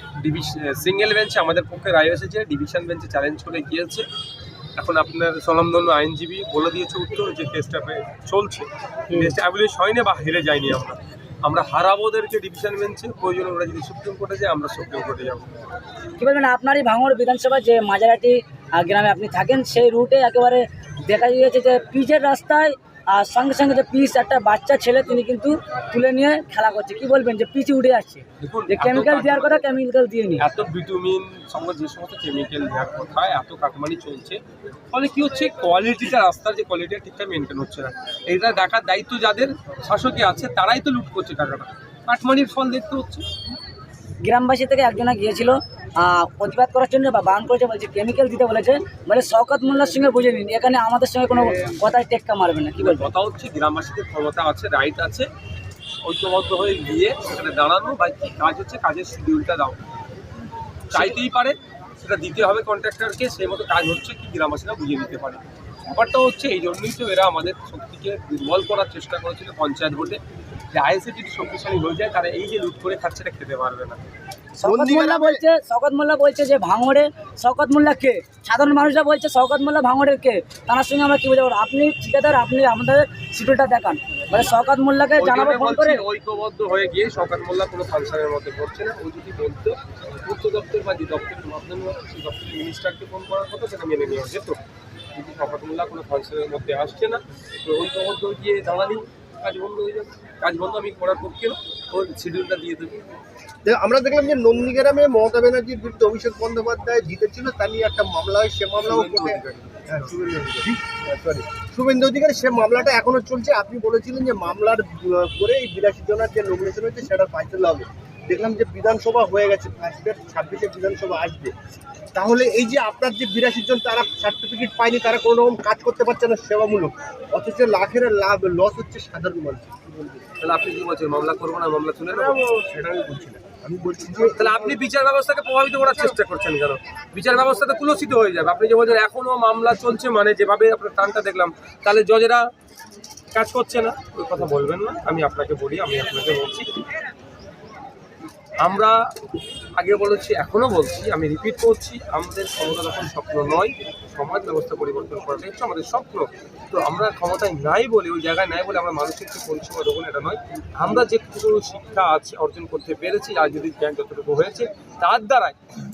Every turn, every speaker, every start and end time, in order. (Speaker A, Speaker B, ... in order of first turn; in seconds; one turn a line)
Speaker A: 0.2-4.0
Speaker A: 4.8-15.5
Speaker B: 9.1-9.4
Speaker B: 16.2-30.4
Speaker A: 28.4-29.8
Speaker A: 30.4-34.4
Speaker A: 34.9-43.2
Speaker B: 44.2-53.1
Speaker A: 52.8-55.3
Speaker A: 56.0-59.8
Speaker A: 60.9-70.2
Speaker A: 70.7-74.0
Speaker B: 74.6-86.0
Speaker C: 74.6-75.4
Speaker A: 85.2-94.6
Speaker A: 95.2-103.0
Speaker C: 103.7-121.5
Speaker A: 108.8-110.1
Speaker C: 122.1-130.2
Speaker A: 130.4-132.4
Speaker C: 132.1-134.7
Speaker A: 134.3-142.4
Speaker A: 143.3-146.7
Speaker A: 148.6-149.0
Speaker A: 149.8-165.6